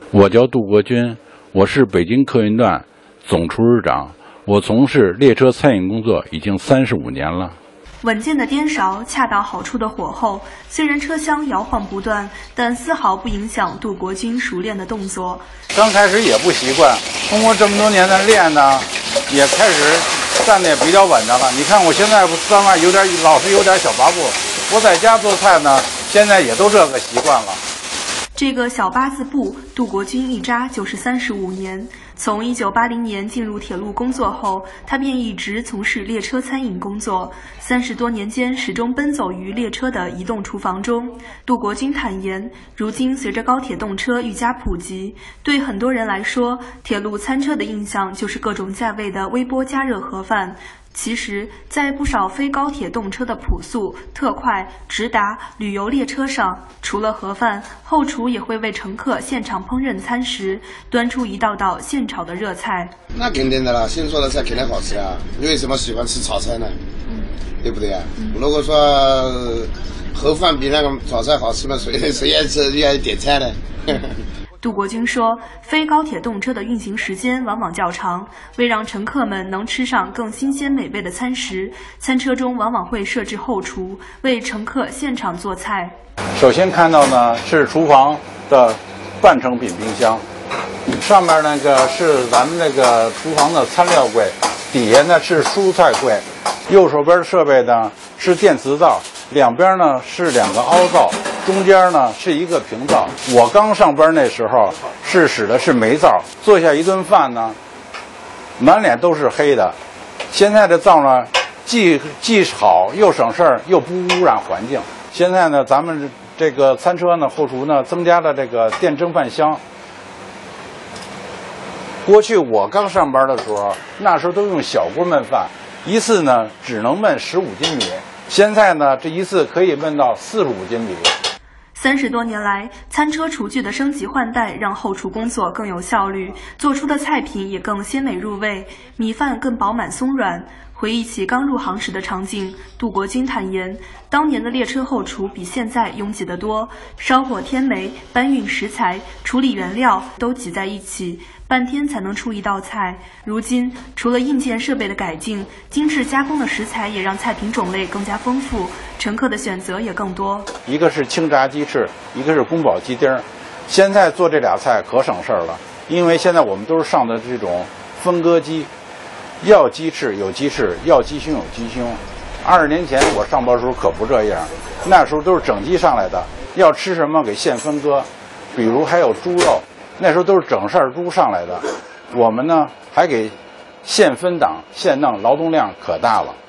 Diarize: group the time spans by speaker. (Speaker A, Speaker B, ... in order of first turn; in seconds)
Speaker A: 0.1-7.6, 15.7-27.6, 86.3-90.2, 91.0-107.6, 108.6-109.8, 110.3-119.6, 122.0-131.1, 160.7-168.7, 169.4-186.4
Speaker B: 8.0-15.5, 28.4-62.9, 74.6-85.9, 131.8-160.5
Speaker C: 63.1-66.8, 67.6-74.1